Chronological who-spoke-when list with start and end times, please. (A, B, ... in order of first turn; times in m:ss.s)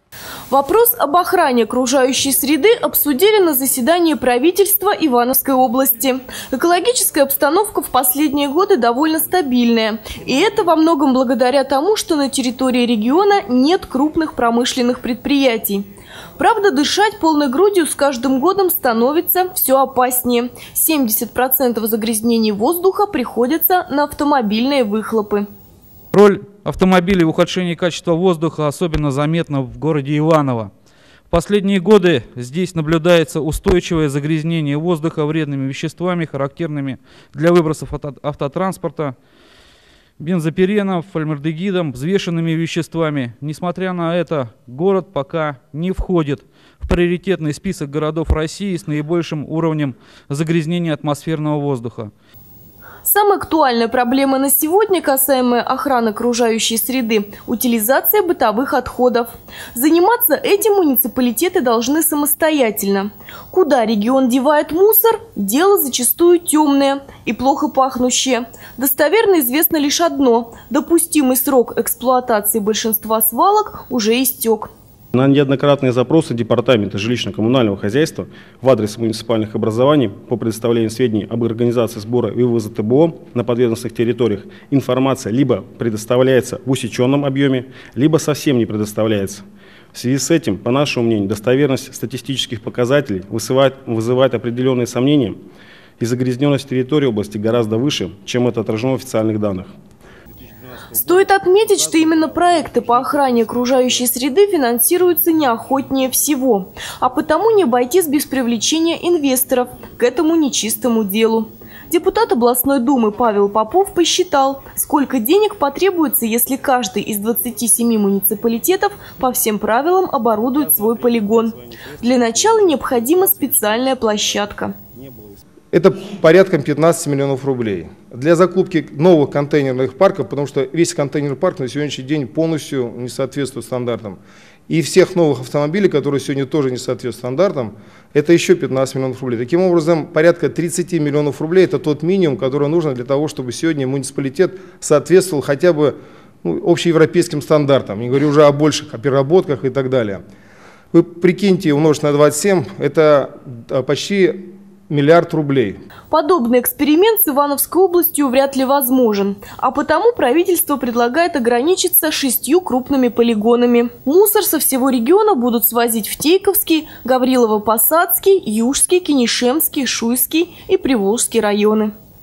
0:00.5-0:15.8 A
0:16.4-0:25.4 A
0:26.1-0:30.7 B
0:31.3-0:39.1 B
0:40.2-0:52.1 B
0:53.0-1:14.7 A
1:15.1-1:35.4 C
1:36.0-1:39.7 C
1:40.3-1:44.1 C
1:40.9-2:04.7 A
2:00.4-2:05.5 C
2:05.7-2:30.2 D
2:30.9-2:35.8 D
2:36.1-2:51.9 A